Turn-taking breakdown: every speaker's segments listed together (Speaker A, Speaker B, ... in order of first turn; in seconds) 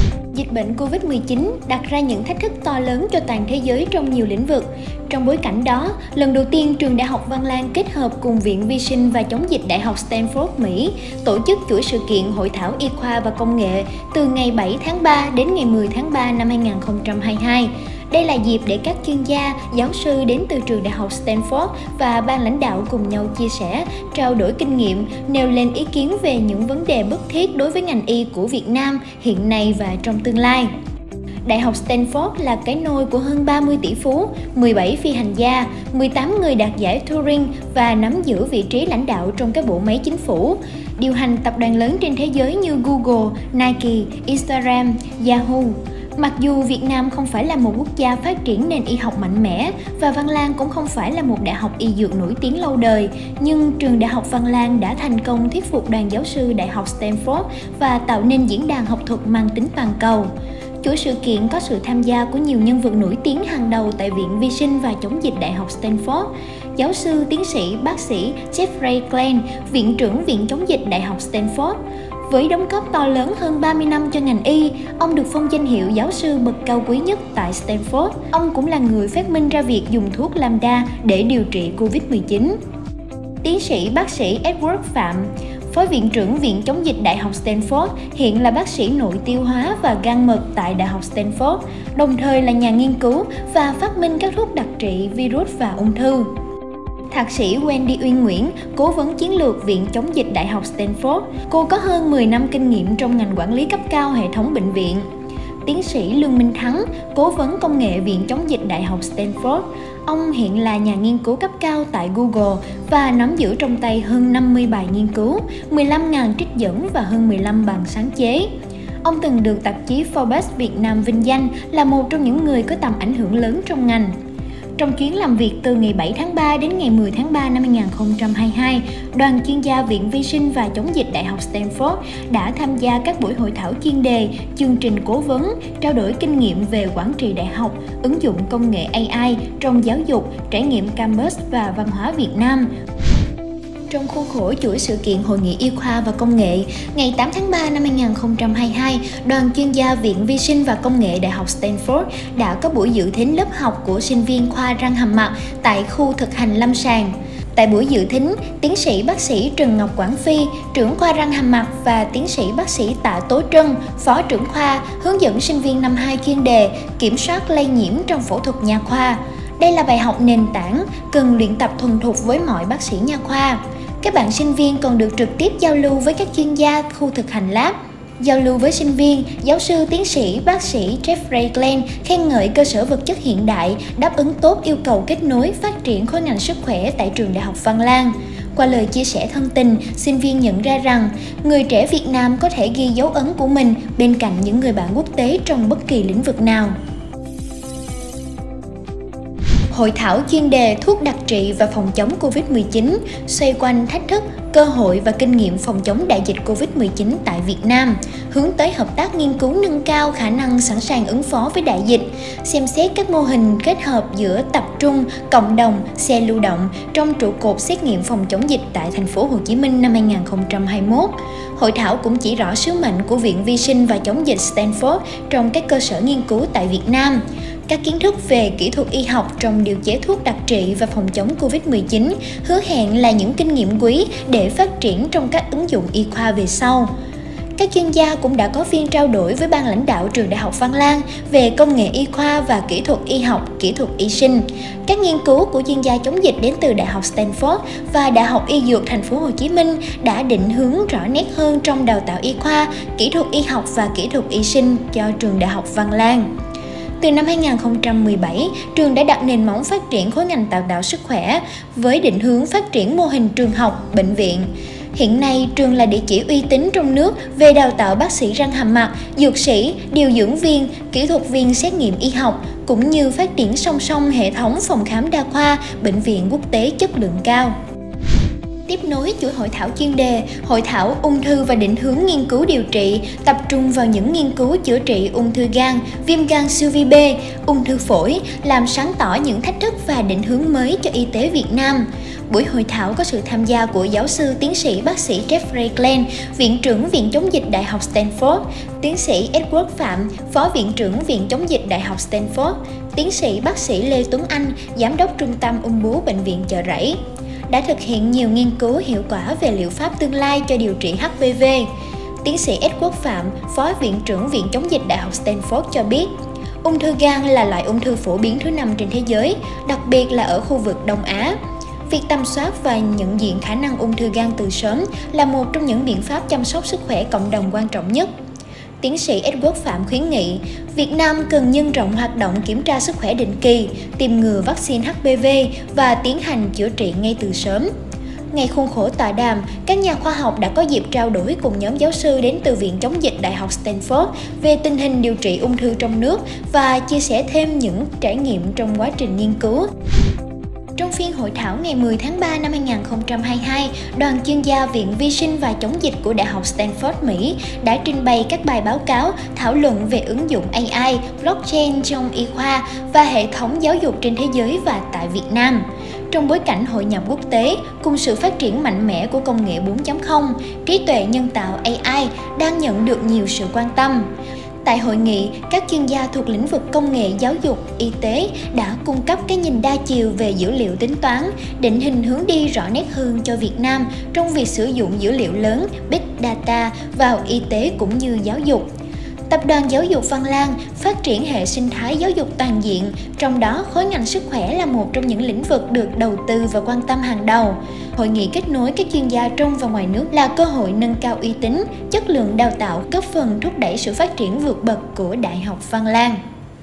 Speaker A: 0.3-30.7, 31.4-60.3, 60.8-71.8, 72.3-82.6, 83.4-96.3, 97.1-105.0, 105.6-118.5, 119.0-124.1, 124.8-142.7, 143.9-196.7, 199.7-236.9, 237.6-256.3, 257.0-277.5, 278.7-307.0, 307.5-311.7, 312.2-316.1, 316.6-321.3, 321.9-328.1, 328.8-337.7, 338.3-349.7, 350.8-374.1, 374.6-388.7, 389.3-406.2